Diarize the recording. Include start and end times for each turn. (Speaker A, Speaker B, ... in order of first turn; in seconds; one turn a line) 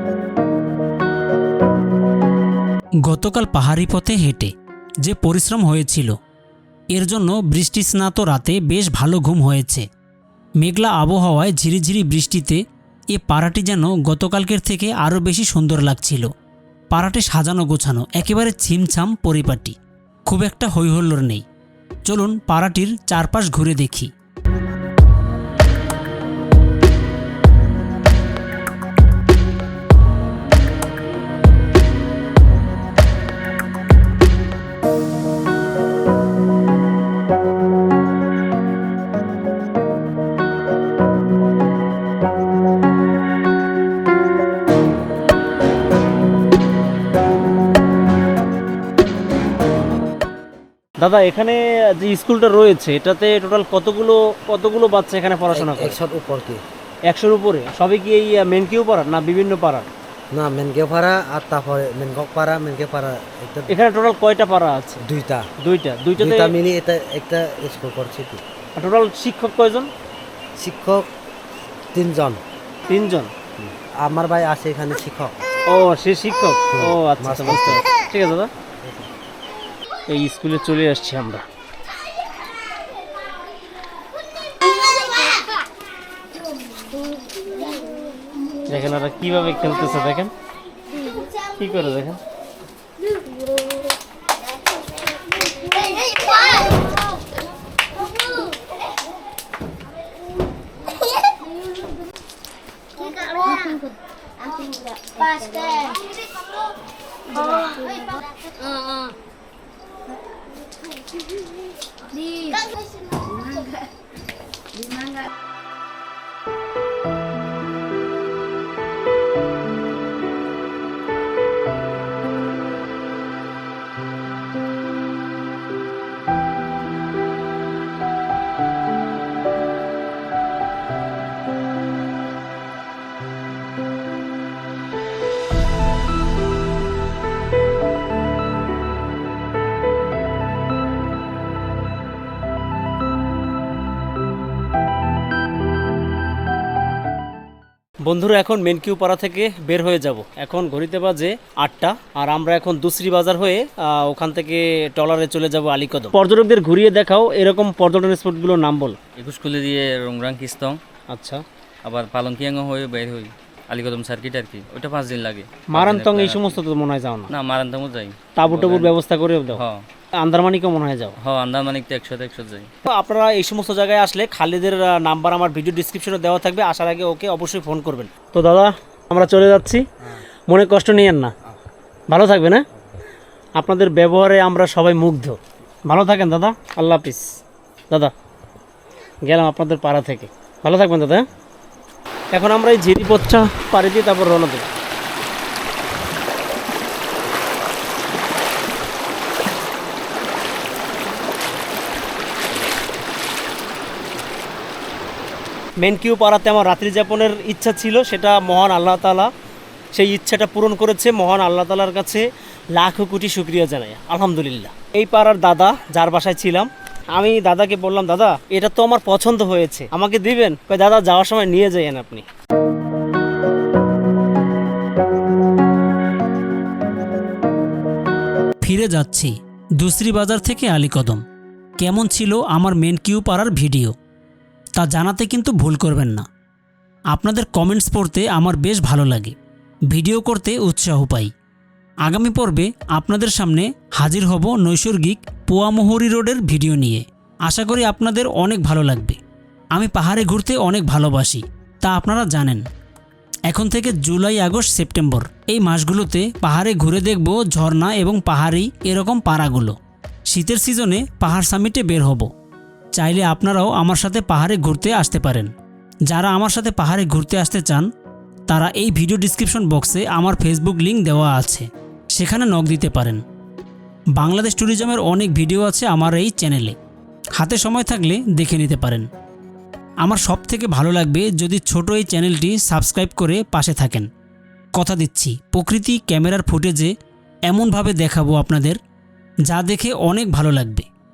Speaker A: 3.0-6.2
Speaker A: 6.9-9.8
Speaker A: 10.6-16.3
Speaker A: 16.9-19.8
Speaker A: 20.3-21.4
Speaker A: 22.1-24.1
Speaker B: 51.0-56.0
Speaker C: 55.5-56.6
Speaker B: 57.1-59.9
Speaker C: 60.3-63.7
Speaker B: 63.7-65.0
Speaker C: 65.0-65.5
Speaker B: 65.6-66.5
Speaker C: 66.2-68.4
Speaker B: 68.8-69.9
Speaker C: 70.6-71.1
Speaker C: 71.9-72.4
Speaker B: 72.9-73.3
Speaker C: 73.6-75.4
Speaker B: 75.7-78.5
Speaker C: 76.7-77.8
Speaker C: 78.8-79.1
Speaker B: 80.1-81.5
Speaker B: 88.7-90.3
Speaker B: 91.4-92.2
Speaker B: 148.0-159.0
Speaker D: 159.2-160.8
Speaker B: 161.1-161.4
Speaker D: 161.8-166.6
Speaker B: 165.7-167.3
Speaker D: 167.3-168.9
Speaker B: 168.3-169.6
Speaker D: 169.6-169.8
Speaker B: 170.2-171.1
Speaker D: 171.2-172.7
Speaker B: 172.9-179.9
Speaker B: 180.5-181.3
Speaker B: 182.1-182.6
Speaker B: 183.6-187.3
Speaker B: 189.2-191.2
Speaker B: 192.3-194.7
Speaker B: 205.8-209.3
Speaker B: 209.9-222.2
Speaker A: 228.6-231.2
Speaker A: 231.8-233.9
Speaker A: 234.8-236.2
Speaker A: 237.1-239.3
Speaker A: 239.9-241.3
Speaker A: 242.0-249.2
Speaker A: 249.7-252.7
Speaker A: 253.5-259.8
Speaker A: 260.3-262.3
Speaker A: 262.9-265.5
Speaker A: 266.1-267.9
Speaker A: 268.5-273.2
Speaker A: 274.1-276.8
Speaker A: 277.4-279.1
Speaker A: 280.0-284.1
Speaker A: 284.7-286.9
Speaker A: 287.5-288.8
Speaker A: 289.5-290.9